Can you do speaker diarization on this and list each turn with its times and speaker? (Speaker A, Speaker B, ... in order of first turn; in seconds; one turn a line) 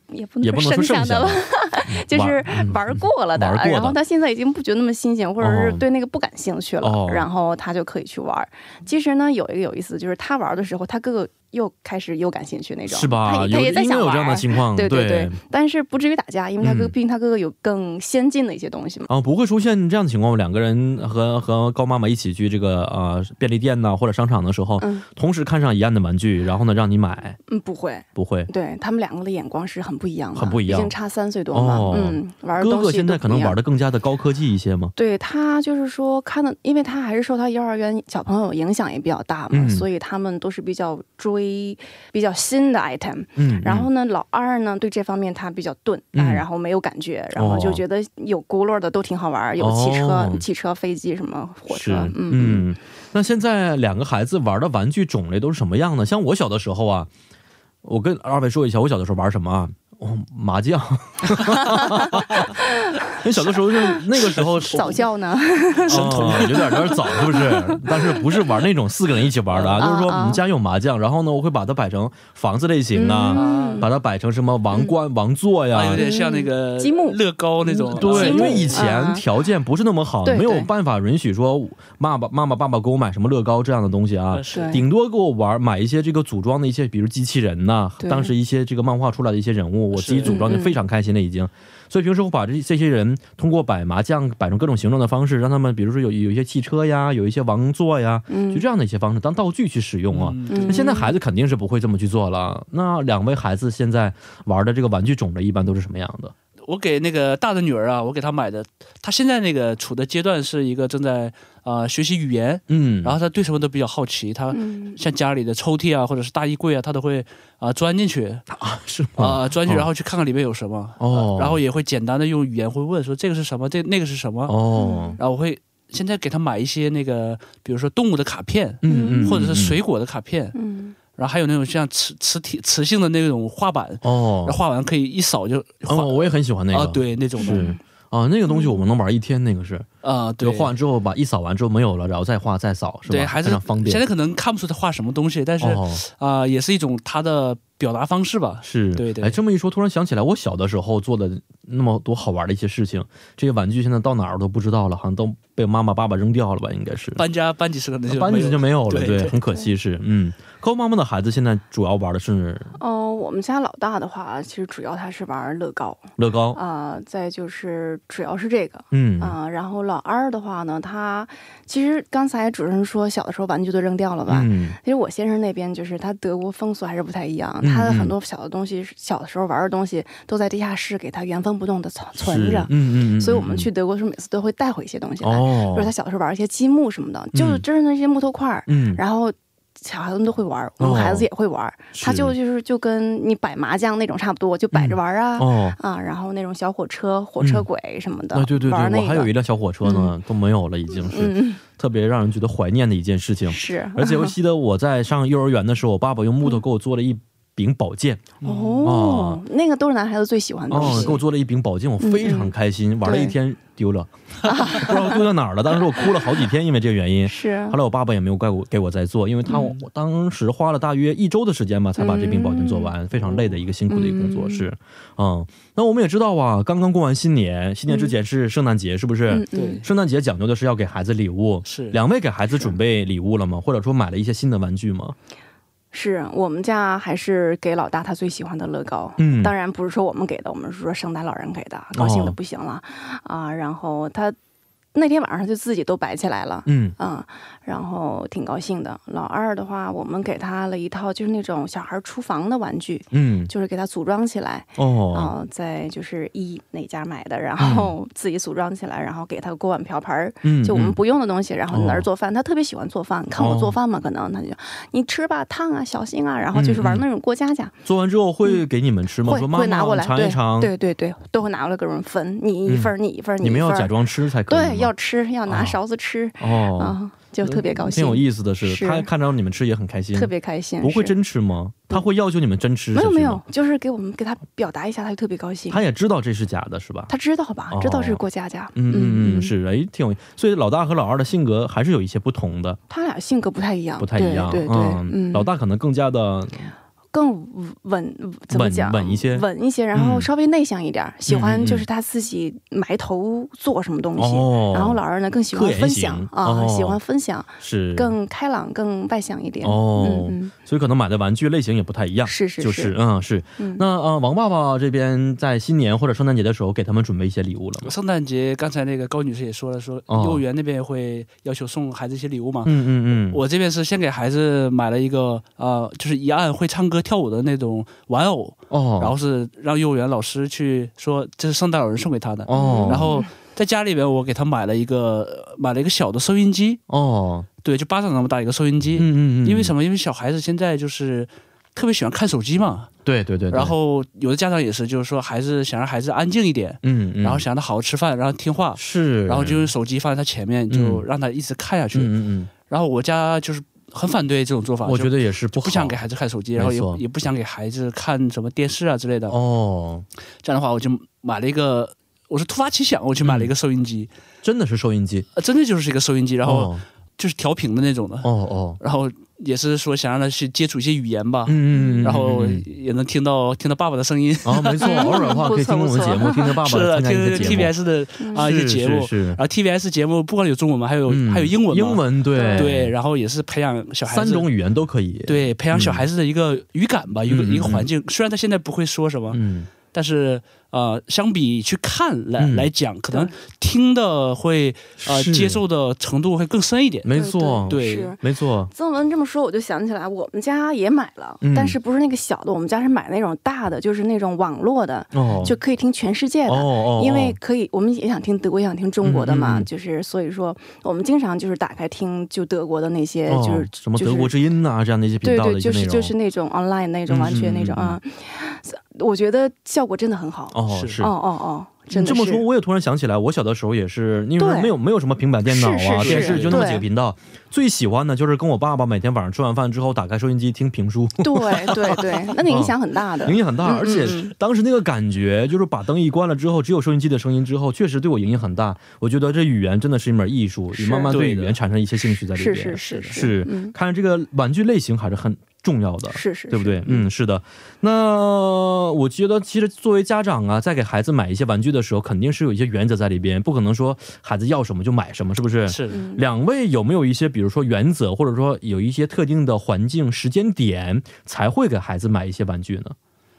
Speaker A: 0.1-19.1
Speaker B: 0.4-4.0
Speaker B: 5.4-5.8
Speaker B: 6.8-7.3
Speaker B: 12.9-15.4
Speaker B: 16.6-16.9
Speaker B: 19.1-27.4
Speaker A: 24.8-25.1
Speaker A: 27.5-33.6
Speaker B: 28.1-28.5
Speaker B: 30.3-30.9
Speaker B: 31.5-34.9
Speaker A: 35.0-52.7
Speaker B: 39.5-39.9
Speaker B: 43.4-43.9
Speaker B: 46.1-46.4
Speaker B: 47.4-47.8
Speaker B: 49.6-50.4
Speaker B: 51.7-57.1
Speaker B: 57.8-62.5
Speaker A: 61.6-63.2
Speaker B: 63.2-65.0
Speaker A: 64.7-67.8
Speaker C: 64.7-65.0
Speaker C: 65.8-66.8
Speaker B: 65.9-76.0
Speaker C: 69.5-69.9
Speaker A: 69.8-70.4
Speaker A: 72.9-73.9
Speaker C: 73.3-73.9
Speaker C: 75.7-78.8
Speaker A: 76.0-79.2
Speaker B: 78.0-106.3
Speaker A: 80.2-80.7
Speaker C: 84.3-84.8
Speaker A: 84.5-84.8
Speaker A: 88.0-88.3
Speaker C: 89.9-90.5
Speaker A: 90.3-90.8
Speaker A: 98.3-98.7
Speaker C: 100.1-100.9
Speaker A: 100.5-101.1
Speaker C: 106.6-118.4
Speaker B: 112.7-113.2
Speaker A: 114.5-115.0
Speaker B: 118.5-119.9
Speaker C: 119.2-124.6
Speaker B: 121.0-121.6
Speaker B: 124.5-125.2
Speaker A: 124.8-125.2
Speaker C: 125.2-130.6
Speaker B: 128.8-129.8
Speaker A: 128.9-129.3
Speaker A: 130.5-131.0
Speaker C: 131.2-137.7
Speaker B: 134.0-134.6
Speaker B: 135.9-139.9
Speaker A: 137.4-137.8
Speaker A: 138.5-138.8
Speaker C: 140.0-140.7
Speaker B: 140.4-144.0
Speaker C: 143.1-149.4
Speaker B: 145.6-146.0
Speaker B: 148.6-157.2
Speaker C: 157.2-159.4
Speaker B: 158.1-162.8
Speaker A: 162.8-199.3
Speaker B: 166.2-166.6
Speaker B: 168.9-169.4
Speaker B: 174.3-174.8
Speaker B: 177.6-178.1
Speaker B: 182.2-183.7
Speaker B: 185.2-185.9
Speaker B: 187.3-187.6
Speaker B: 188.7-189.0
Speaker B: 190.8-191.3
Speaker B: 191.9-192.3
Speaker B: 194.7-195.8
Speaker B: 197.4-197.7
Speaker B: 198.3-209.4
Speaker A: 199.8-200.1
Speaker A: 200.9-201.6
Speaker A: 203.5-204.3
Speaker C: 208.4-208.9
Speaker A: 208.4-211.2
Speaker B: 210.7-235.2
Speaker A: 212.0-213.3
Speaker A: 214.4-215.2
Speaker A: 217.2-217.8
Speaker C: 219.5-219.8
Speaker A: 222.0-222.9
Speaker C: 223.2-223.5
Speaker A: 223.9-224.7
Speaker A: 227.9-228.1
Speaker A: 229.3-229.8
Speaker C: 229.5-229.8
Speaker C: 231.7-232.0
Speaker A: 232.5-232.8
Speaker A: 235.9-244.3
Speaker B: 239.2-239.5
Speaker B: 241.9-242.4
Speaker A: 244.9-267.7
Speaker B: 246.7-246.9
Speaker B: 253.1-253.5
Speaker B: 254.8-255.3
Speaker B: 257.6-257.9
Speaker B: 260.4-261.0
Speaker B: 261.7-262.1
Speaker B: 263.4-263.8
Speaker B: 266.5-267.1
Speaker B: 267.9-270.7
Speaker A: 269.2-273.9
Speaker B: 272.7-274.9
Speaker A: 274.5-279.1
Speaker B: 275.5-275.8
Speaker B: 276.4-283.4
Speaker A: 280.1-281.2
Speaker A: 282.9-285.8
Speaker B: 285.7-287.1
Speaker A: 287.1-289.5
Speaker B: 287.7-288.2
Speaker B: 288.8-292.8
Speaker A: 292.9-295.5
Speaker B: 294.0-296.7
Speaker A: 297.1-310.5
Speaker B: 298.5-300.3
Speaker B: 301.3-301.9
Speaker B: 304.2-305.0
Speaker B: 305.5-307.0
Speaker B: 307.6-308.1
Speaker B: 309.6-317.9
Speaker A: 312.2-312.9
Speaker A: 313.6-313.9
Speaker C: 317.8-336.8
Speaker B: 320.1-320.4
Speaker B: 322.6-323.4
Speaker B: 328.7-329.2
Speaker B: 332.5-333.2
Speaker A: 332.6-333.3
Speaker B: 336.9-337.5
Speaker C: 337.6-342.9
Speaker B: 339.0-339.7
Speaker B: 343.1-343.7
Speaker C: 343.5-352.1
Speaker B: 346.8-347.4
Speaker B: 348.8-349.7
Speaker B: 350.7-351.1
Speaker B: 351.9-352.5
Speaker C: 352.7-359.4
Speaker B: 354.8-356.0
Speaker B: 356.6-357.0
Speaker B: 359.3-360.1
Speaker C: 360.4-364.1
Speaker B: 363.2-363.5
Speaker B: 364.4-365.3
Speaker C: 365.4-375.4
Speaker B: 366.4-366.8
Speaker B: 368.2-368.8
Speaker B: 371.5-372.7
Speaker A: 371.7-372.1
Speaker B: 374.4-377.8
Speaker A: 374.8-376.6
Speaker C: 376.6-384.5
Speaker A: 377.3-377.7
Speaker A: 378.2-378.5
Speaker B: 378.4-379.4
Speaker B: 381.1-382.9
Speaker A: 382.4-382.7
Speaker B: 384.1-386.1
Speaker C: 385.3-389.4
Speaker B: 387.3-387.9
Speaker B: 389.3-389.7
Speaker C: 389.9-397.1
Speaker B: 392.4-392.7
Speaker B: 395.0-395.6
Speaker B: 397.1-398.7
Speaker A: 397.1-414.3
Speaker C: 397.7-398.1
Speaker B: 401.4-401.8
Speaker B: 405.1-405.6
Speaker B: 406.5-407.4
Speaker B: 409.0-409.7
Speaker B: 413.3-416.1
Speaker A: 415.2-422.4
Speaker B: 417.1-418.0
Speaker B: 420.5-421.1
Speaker C: 420.7-421.0
Speaker B: 421.9-463.0
Speaker A: 424.4-424.7
Speaker A: 425.5-426.9
Speaker C: 426.0-426.7
Speaker A: 431.2-434.3
Speaker A: 440.7-441.1
Speaker C: 441.1-441.6
Speaker A: 442.4-443.7
Speaker C: 442.8-443.1
Speaker A: 446.1-447.1
Speaker C: 455.7-456.0
Speaker A: 455.9-456.2